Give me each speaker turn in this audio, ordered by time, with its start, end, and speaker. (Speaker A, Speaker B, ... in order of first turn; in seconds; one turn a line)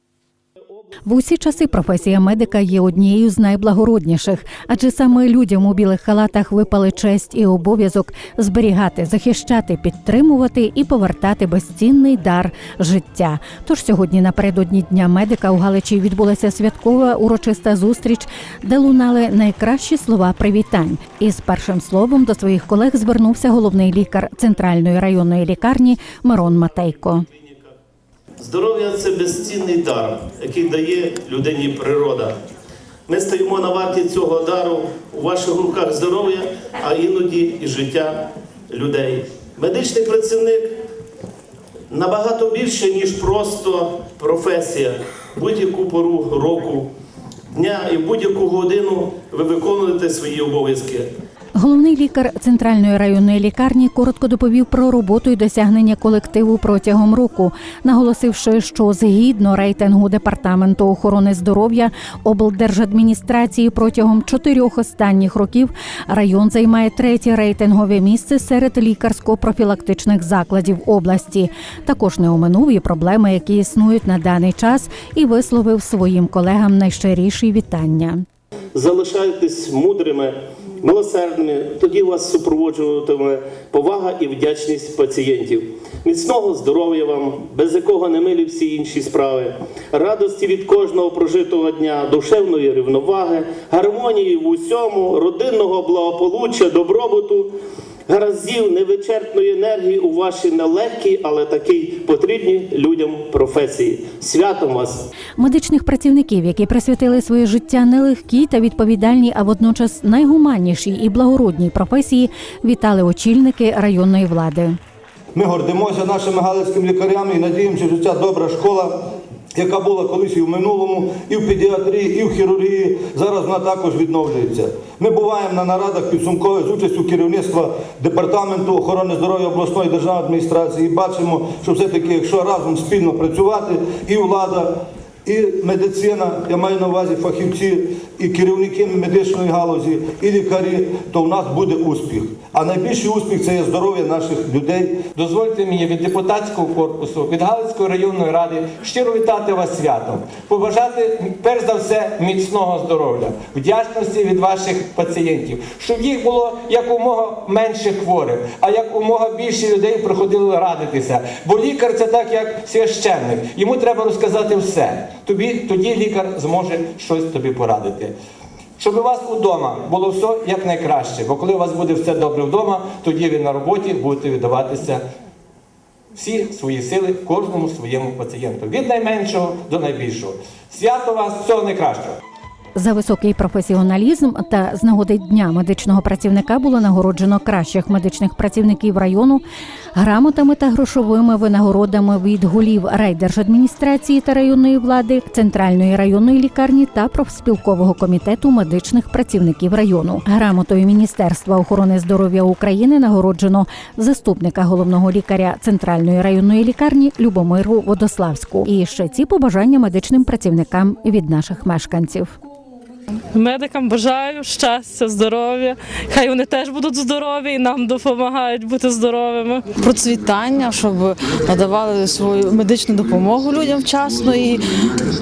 Speaker A: 1.0-27.2
Speaker B: 27.3-27.8
Speaker B: 28.4-32.4
Speaker B: 33.1-40.7
Speaker B: 41.9-46.9
Speaker B: 47.5-51.1
Speaker A: 51.5-78.2
Speaker B: 78.7-97.5
Speaker B: 98.1-105.1
Speaker A: 105.4-114.8
Speaker C: 115.3-119.0
Speaker C: 119.5-145.1
Speaker D: 145.1-168.1
Speaker D: 168.8-175.0
Speaker D: 176.1-182.2
Speaker A: 182.8-189.4
Speaker A: 189.9-212.3
Speaker E: 213.3-219.8
Speaker F: 219.8-224.6